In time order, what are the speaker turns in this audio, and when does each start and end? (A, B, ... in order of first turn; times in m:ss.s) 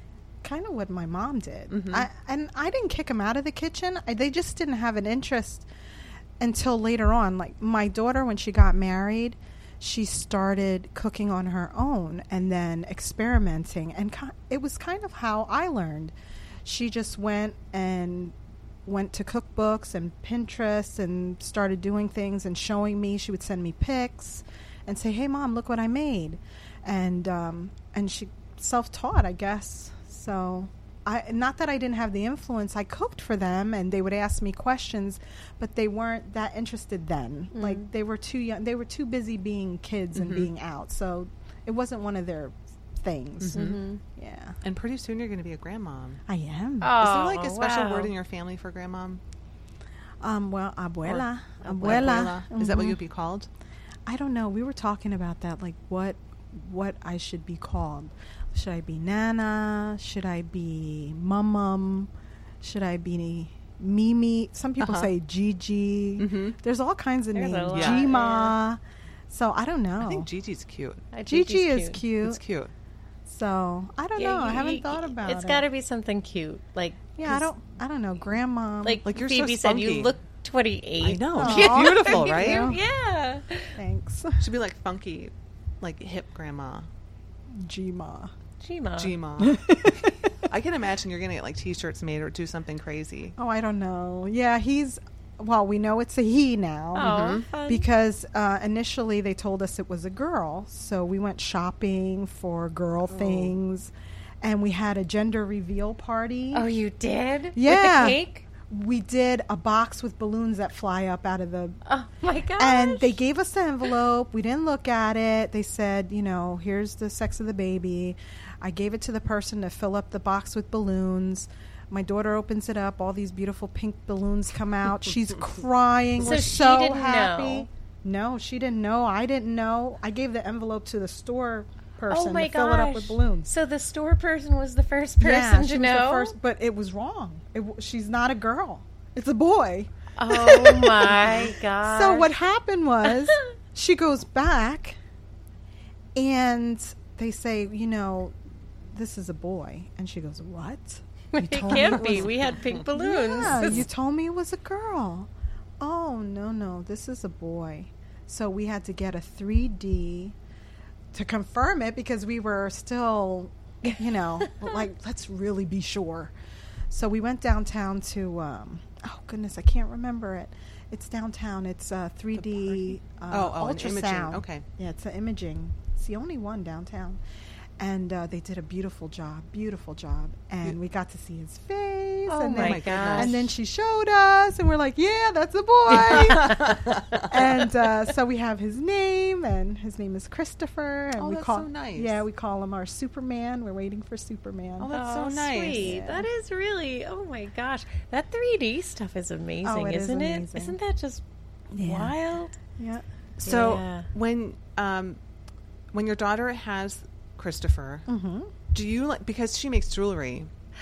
0:00.4-0:05.7 A
0:01.7-0:02.1 B
0:06.4-0:44.6 A
0:37.5-0:37.8 C
0:40.1-0:40.5 B
0:43.4-0:43.8 B
0:43.5-0:44.0 C
0:44.6-0:46.2 B
0:46.3-0:47.0 A
0:46.8-0:48.1 C
0:47.0-0:49.2 B
0:50.2-0:53.0 A
0:51.0-0:53.5 B
0:54.0-1:10.3 A
1:04.8-1:05.1 B
1:06.2-1:06.6 B
1:07.4-1:08.5 C
1:07.7-1:08.1 B
1:10.0-1:11.0 B
1:11.1-1:12.0 C
1:11.3-1:12.4 A
1:12.2-1:12.7 B
1:13.2-1:15.6 A
1:14.2-1:17.5 C
1:17.2-1:19.0 A
1:18.8-1:23.8 C
1:19.0-1:20.1 B
1:21.0-1:22.7 B
1:21.4-1:22.8 A
1:23.8-1:24.4 A
1:24.4-1:26.9 B
1:27.5-1:28.3 A
1:28.6-1:29.1 C
1:29.0-1:29.6 B
1:29.4-1:30.5 A
1:30.5-1:33.4 B
1:33.4-1:43.9 A
1:36.9-1:37.9 C
1:37.0-1:37.5 B
1:44.4-1:46.7 A
1:46.5-1:48.4 C
1:47.5-1:51.8 A
1:51.9-1:53.1 C
1:52.6-2:13.5 A
2:06.2-2:07.7 C
2:12.1-2:16.3 C
2:15.2-2:25.0 A
2:20.2-2:22.3 C
2:26.1-2:28.4 A
2:28.9-2:40.4 A
2:31.3-2:33.9 C
2:31.7-2:32.3 B
2:41.1-2:46.3 A
2:46.9-2:57.2 A
2:53.3-2:54.6 B
2:57.8-3:14.9 A
3:02.3-3:03.4 C
3:02.6-3:03.4 B
3:05.9-3:06.5 C
3:06.1-3:07.3 B
3:11.2-3:12.2 B
3:14.8-3:15.9 B
3:14.9-3:21.2 C
3:15.8-3:16.3 A
3:19.6-3:20.8 A
3:21.7-3:22.2 A
3:21.8-3:22.5 C
3:22.8-3:23.0 A
3:23.4-3:25.2 B
3:23.4-3:24.1 C
3:25.9-3:28.0 B
3:28.1-3:28.5 A
3:28.7-3:30.5 B